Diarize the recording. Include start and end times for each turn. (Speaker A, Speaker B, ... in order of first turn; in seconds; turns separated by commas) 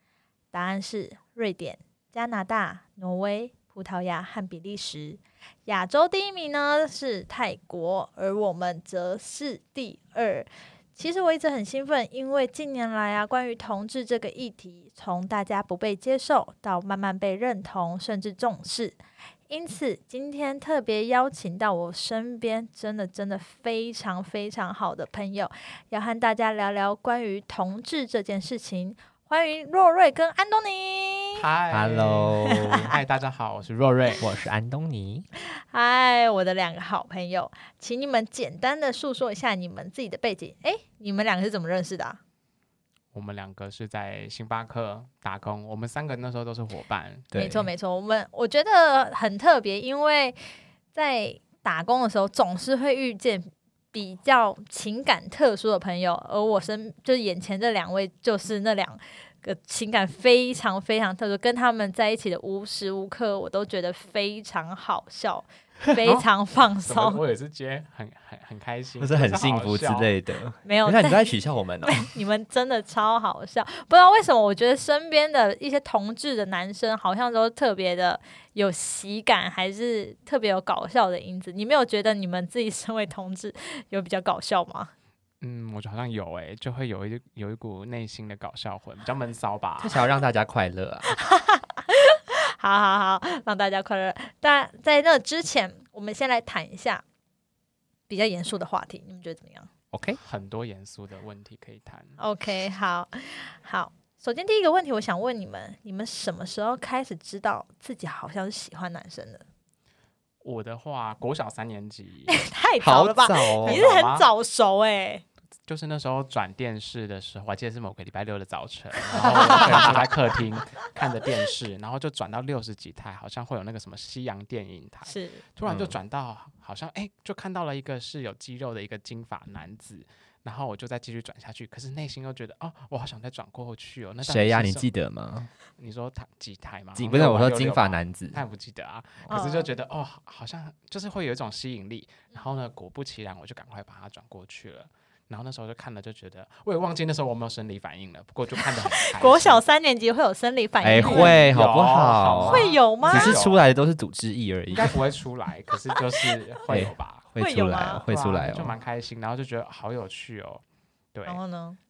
Speaker A: 0.5-19.0, Speaker A: 19.5-31.4, Speaker B: 31.3-34.2, Speaker C: 31.7-32.9, Speaker C: 34.2-35.3, Speaker A: 35.5-42.2, Speaker B: 43.1-47.3, Speaker C: 47.3-47.7, Speaker A: 47.3-50.4, Speaker A: 50.9-67.2, Speaker B: 66.8-70.1, Speaker C: 69.0-72.1, Speaker A: 70.7-71.3, Speaker A: 71.8-84.9, Speaker B: 85.4-90.0, Speaker C: 89.8-91.2, Speaker A: 91.1-97.0, Speaker A: 98.1-99.7, Speaker C: 99.9-100.2, Speaker B: 100.2-102.2, Speaker A: 102.2-109.4, Speaker B: 110.4-112.4, Speaker A: 112.3-115.2, Speaker C: 112.8-113.8, Speaker B: 113.6-114.3, Speaker B: 115.7-134.9, Speaker C: 119.2-120.0, Speaker A: 119.2-119.7, Speaker A: 125.0-125.4, Speaker C: 125.6-126.0, Speaker C: 134.2-135.5, Speaker B: 135.8-149.6, Speaker C: 136.9-138.4, Speaker A: 139.3-139.7, Speaker A: 148.8-151.4, Speaker C: 150.8-155.0, Speaker B: 150.9-153.6, Speaker A: 152.4-153.3, Speaker B: 154.7-157.3, Speaker C: 156.7-158.7, Speaker A: 157.4-158.1, Speaker B: 158.1-160.6, Speaker B: 161.1-161.4, Speaker A: 161.2-161.8